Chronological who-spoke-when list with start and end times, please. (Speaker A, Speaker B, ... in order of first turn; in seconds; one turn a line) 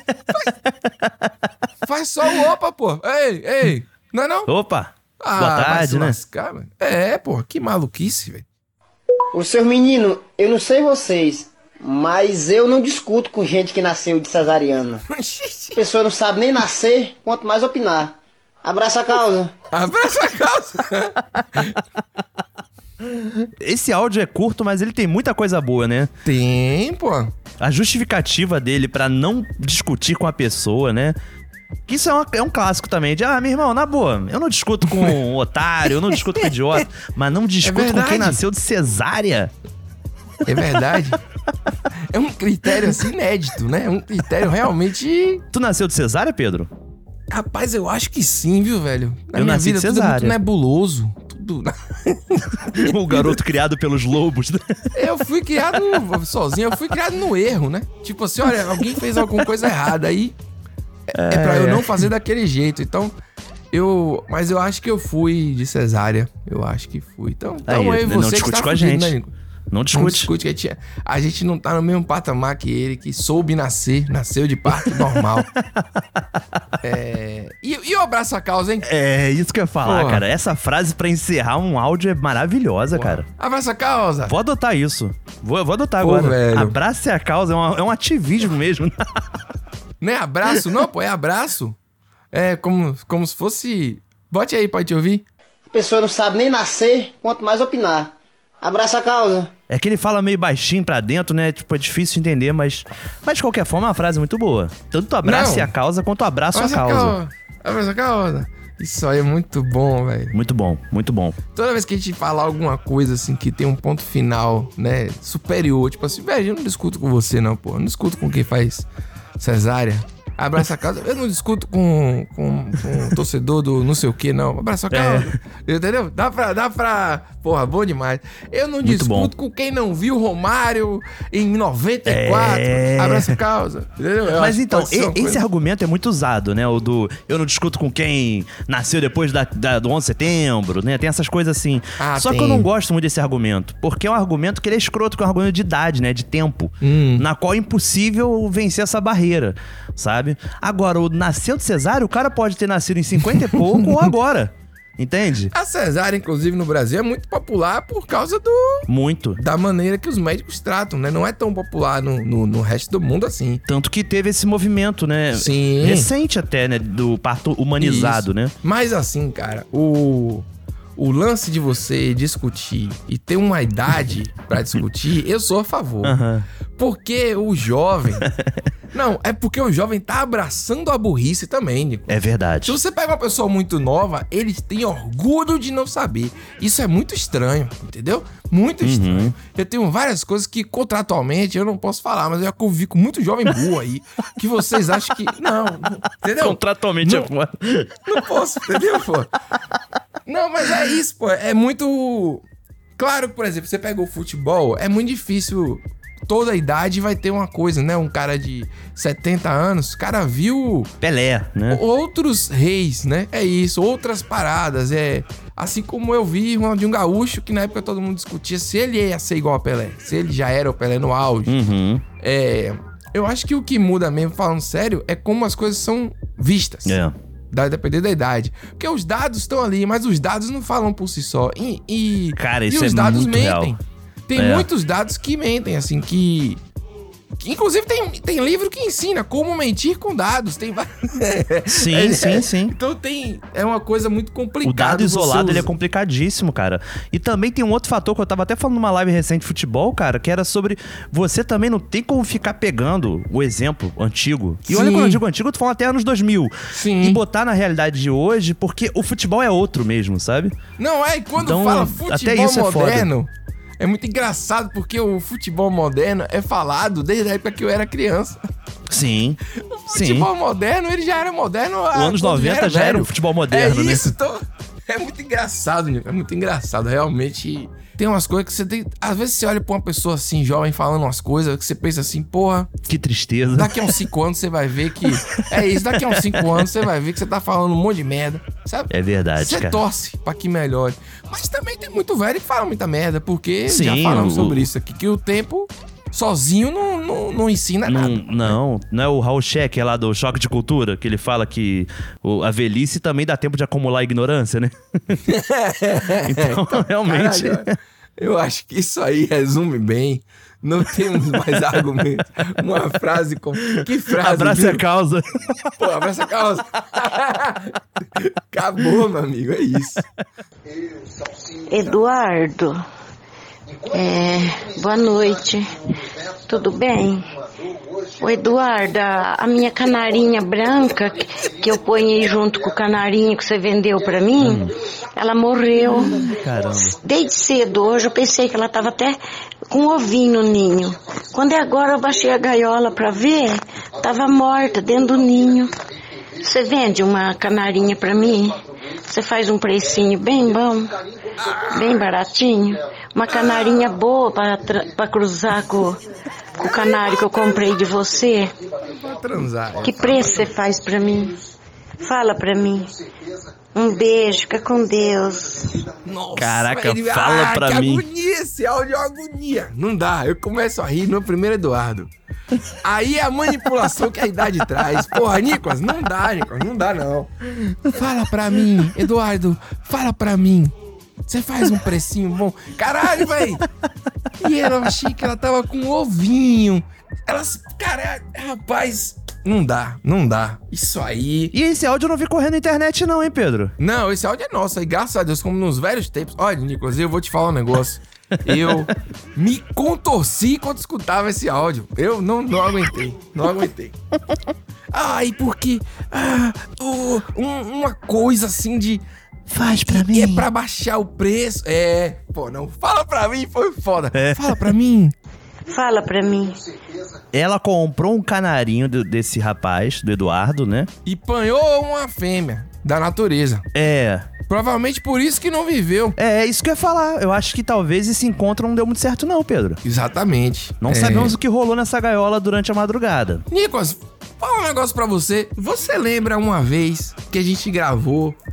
Speaker A: 1.8-4.5
Speaker B: 4.5-6.2
Speaker A: 5.2-8.5
Speaker C: 9.3-15.0
Speaker A: 15.1-15.8
Speaker C: 15.8-19.5
Speaker A: 19.7-21.7
Speaker B: 23.6-26.1
Speaker A: 26.2-27.3
Speaker B: 27.6-31.2
Speaker B: 31.9-39.5
Speaker A: 37.6-38.4
Speaker A: 40.5-41.2
Speaker A: 42.1-45.4
Speaker B: 45.5-46.7
Speaker A: 47.3-53.4
Speaker B: 49.4-50.4
Speaker B: 52.7-54.6
Speaker A: 54.9-60.4
Speaker A: 61.1-63.1
Speaker B: 61.1-62.1
Speaker A: 63.7-69.3
Speaker B: 67.7-69.2
Speaker B: 69.7-70.3
Speaker A: 69.9-75.5
Speaker B: 74.7-76.6
Speaker A: 76.8-78.9
Speaker B: 78.8-83.3
Speaker A: 79.8-80.2
Speaker A: 82.9-84.3
Speaker B: 84.3-89.0
Speaker A: 86.0-86.8
Speaker A: 90.0-91.8
Speaker A: 92.3-95.2
Speaker C: 95.7-99.5
Speaker B: 99.7-107.2
Speaker A: 105.2-105.7
Speaker A: 106.5-110.3
Speaker B: 110.3-111.4
Speaker A: 111.5-118.9
Speaker A: 119.4-135.4
Speaker B: 124.9-125.4
Speaker B: 128.8-129.3
Speaker B: 132.1-133.4
Speaker B: 134.3-155.5
Speaker A: 142.0-142.7
Speaker A: 146.8-147.3
Speaker A: 153.4-153.7
Speaker A: 155.5-163.6
Speaker B: 158.9-159.4
Speaker B: 163.7-168.5
Speaker A: 165.3-166.1
Speaker A: 167.8-170.5
Speaker A: 171.0-176.2
Speaker B: 176.0-176.5
Speaker A: 176.8-178.3
Speaker B: 178.2-178.7
Speaker A: 178.9-197.3
Speaker B: 182.1-182.8
Speaker B: 188.8-189.3
Speaker B: 196.4-198.0
Speaker A: 198.1-199.3
Speaker A: 200.3-202.4
Speaker A: 203.0-210.9
Speaker B: 211.0-211.8
Speaker A: 211.7-221.6
Speaker B: 221.5-222.0
Speaker A: 222.2-227.0
Speaker B: 226.9-227.1
Speaker A: 227.5-236.6
Speaker B: 232.4-233.8
Speaker B: 234.4-234.7
Speaker A: 237.4-245.7
Speaker B: 241.7-242.8
Speaker B: 244.6-260.6
Speaker A: 254.7-255.2
Speaker A: 256.7-257.2
Speaker A: 260.8-268.4
Speaker B: 261.4-263.1
Speaker B: 268.9-269.4
Speaker A: 269.6-282.7
Speaker B: 269.9-270.3
Speaker B: 271.9-274.1
Speaker B: 282.9-284.0
Speaker A: 283.6-298.6
Speaker B: 285.1-286.7
Speaker B: 288.9-289.8
Speaker B: 293.7-294.7
Speaker B: 297.9-305.2
Speaker A: 305.3-314.8
Speaker B: 306.2-307.7
Speaker B: 314.2-315.7
Speaker A: 315.8-320.0
Speaker D: 321.7-322.8
Speaker D: 323.9-325.7
Speaker D: 326.5-327.3
Speaker D: 328.2-336.3
Speaker B: 334.4-334.7
Speaker B: 335.9-337.0
Speaker D: 337.0-339.2
Speaker D: 339.7-345.8
Speaker D: 346.4-350.9
Speaker A: 351.4-351.7
Speaker D: 351.6-356.0
Speaker A: 353.3-353.7
Speaker D: 356.6-358.5
Speaker A: 358.9-360.5
Speaker D: 359.8-361.4
Speaker D: 362.0-362.9
Speaker D: 363.8-365.8
Speaker A: 366.1-372.1
Speaker B: 366.4-368.1
Speaker A: 372.8-377.3
Speaker A: 377.9-380.7
Speaker A: 381.3-383.6
Speaker A: 384.4-391.5
Speaker B: 391.5-393.7
Speaker A: 393.8-404.0
Speaker B: 398.5-398.9
Speaker A: 404.9-409.0
Speaker B: 409.5-410.5
Speaker A: 409.9-415.1
Speaker B: 414.1-414.8
Speaker D: 415.7-416.6
Speaker B: 417.3-420.9
Speaker A: 421.1-423.6
Speaker B: 423.7-424.3
Speaker A: 424.5-426.2
Speaker B: 426.2-429.8
Speaker A: 429.8-431.4
Speaker B: 430.8-433.4
Speaker A: 433.5-438.4